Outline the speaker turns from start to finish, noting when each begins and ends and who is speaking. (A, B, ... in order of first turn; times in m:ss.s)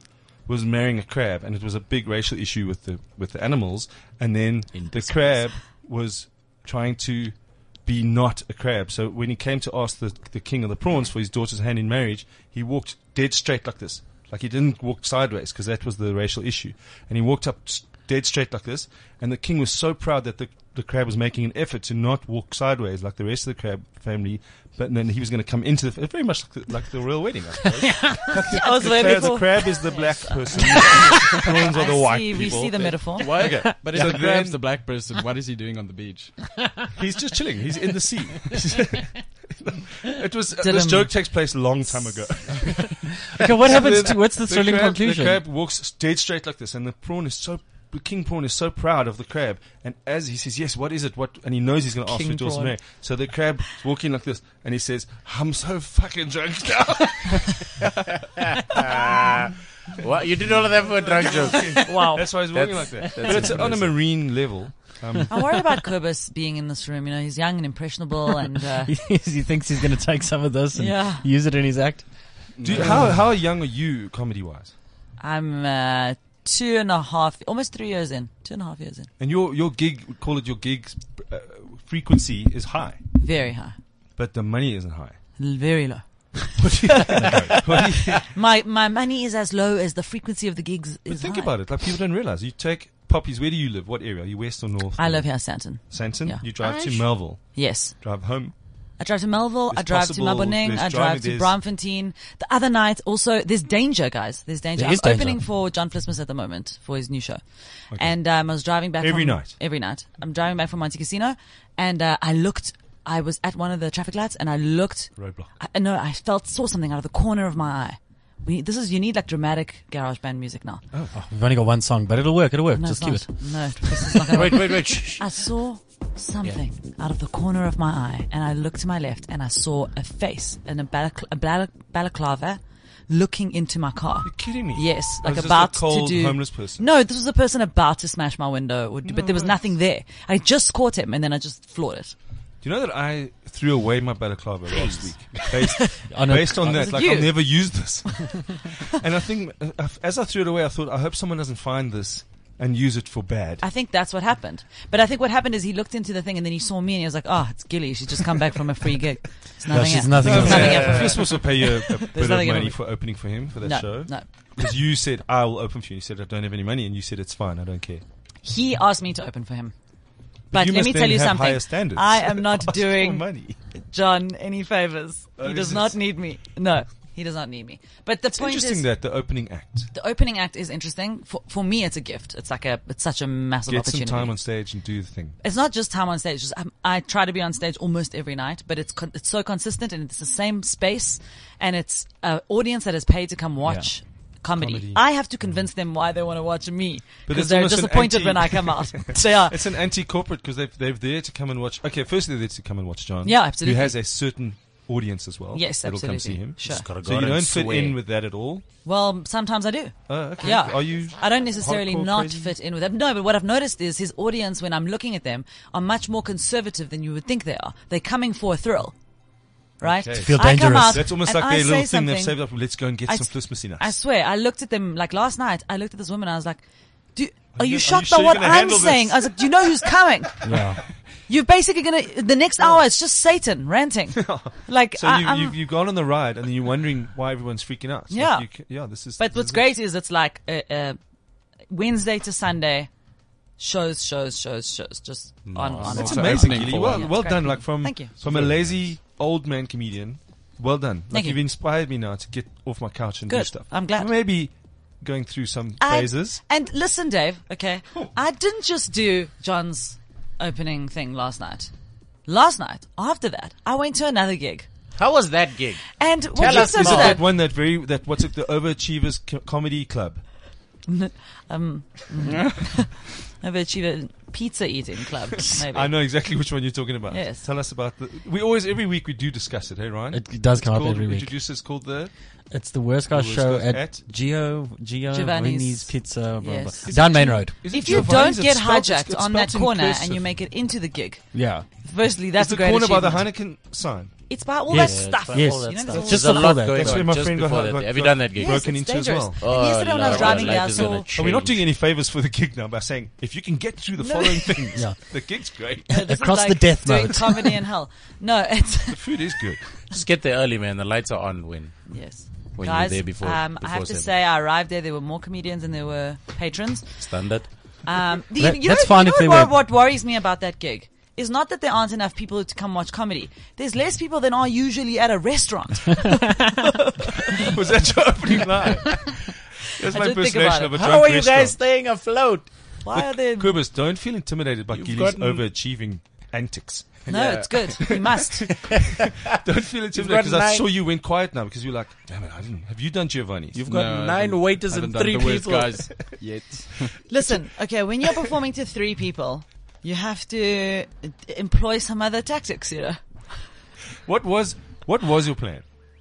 0:00.4-0:34.6 A
0:04.7-0:05.4 B
0:28.1-0:33.3 C
0:33.2-0:36.5 D
0:33.6-0:34.2 E
0:36.9-0:57.7 A
0:40.6-0:41.1 C
0:43.2-0:45.4 E
0:52.1-0:52.7 E
0:58.2-1:04.1 B
1:00.4-1:05.3 A
1:05.3-1:08.9 C
1:08.8-1:12.1 E
1:10.7-1:11.3 C
1:12.5-1:13.2 D
1:12.6-1:14.7 A
1:12.8-1:13.1 E
1:15.2-1:19.1 C
1:19.2-1:23.0 A
1:23.2-1:23.8 C
1:24.2-1:25.2 A
1:25.4-1:31.5 C
1:26.6-1:28.3 A
1:27.2-1:27.5 E
1:31.1-1:38.5 A
1:35.0-1:36.7 C
1:36.6-1:37.0 B
1:37.4-1:38.0 C
1:39.0-1:47.4 C
1:39.7-1:41.6 A
1:44.8-1:45.4 E
1:47.9-1:48.2 A
1:47.9-2:00.8 C
1:49.0-1:49.6 A
1:55.2-1:55.5 A
2:01.1-2:04.4 E
2:02.7-2:22.1 C
2:04.3-2:05.2 B
2:14.2-2:16.8 A
2:19.0-2:19.6 A
2:22.6-2:33.6 A
2:24.7-2:25.1 B
2:25.4-2:27.6 C
2:26.1-2:27.0 E
2:33.6-2:43.0 C
2:39.7-2:41.1 E
2:40.2-2:48.0 A
2:40.4-2:41.3 B
2:43.6-2:44.2 C
2:48.4-2:49.7 C
2:50.5-2:53.6 A
2:50.5-2:58.9 C
2:55.4-2:56.0 A
2:58.3-2:59.9 A
2:59.9-3:04.4 C
3:03.7-3:05.4 A
3:05.4-3:19.6 C
3:14.5-3:15.0 A
3:17.3-3:28.6 A
3:23.2-3:24.0 C
3:25.5-3:26.8 C
3:26.6-3:28.0 B
3:28.8-3:38.9 C
3:30.1-3:32.5 A
3:39.8-3:43.9 A
3:39.8-3:42.4 C
3:40.2-3:41.1 E
3:43.0-3:46.6 C
3:47.1-3:50.4 C
3:47.5-3:49.9 A
3:50.4-3:50.8 E
3:51.2-3:55.6 C
3:54.1-3:59.7 A
3:58.1-3:58.5 C
3:59.1-4:01.0 C
4:01.7-4:02.9 C
4:03.6-4:08.1 C
4:05.5-4:06.2 B
4:05.8-4:07.2 D
4:05.8-4:16.4 A
4:08.2-4:08.7 D
4:11.1-4:11.4 C
4:13.3-4:14.1 C
4:15.8-4:21.7 C
4:22.3-4:24.7 C
4:25.0-4:27.2 B
4:25.9-4:27.2 C
4:26.4-4:30.3 A
4:30.9-4:35.9 C
4:35.5-4:42.1 A
4:37.1-4:37.4 C
4:40.1-4:41.4 E
4:42.5-4:48.2 E
4:43.1-4:44.0 A
4:45.1-4:53.3 C
4:46.8-4:50.3 A
4:51.3-4:51.6 E
4:52.4-4:54.1 A
4:54.3-4:56.6 C
4:54.7-4:57.1 E
4:54.7-4:58.8 B
4:55.9-5:05.9 A
4:58.4-5:01.1 C
4:59.4-5:01.6 B
5:04.0-5:04.9 C
5:04.7-5:07.6 E
5:05.9-5:09.2 C
5:08.9-5:09.6 A
5:09.9-5:12.0 B
5:11.9-5:17.0 C
5:12.5-5:14.1 B
5:17.0-5:17.5 B
5:17.8-5:27.5 C
5:18.4-5:19.6 E
5:27.3-5:31.6 A
5:29.9-5:30.7 C
5:30.7-5:32.6 B
5:32.8-5:33.6 C
5:32.9-5:37.1 A
5:34.7-5:35.4 B
5:37.1-5:38.5 C
5:37.1-5:37.5 D
5:37.8-5:43.6 A
5:38.5-5:39.3 B
5:39.9-5:40.7 B
5:43.5-5:45.9 B
5:43.7-5:47.0 D
5:47.1-5:53.2 C
5:54.0-5:55.6 A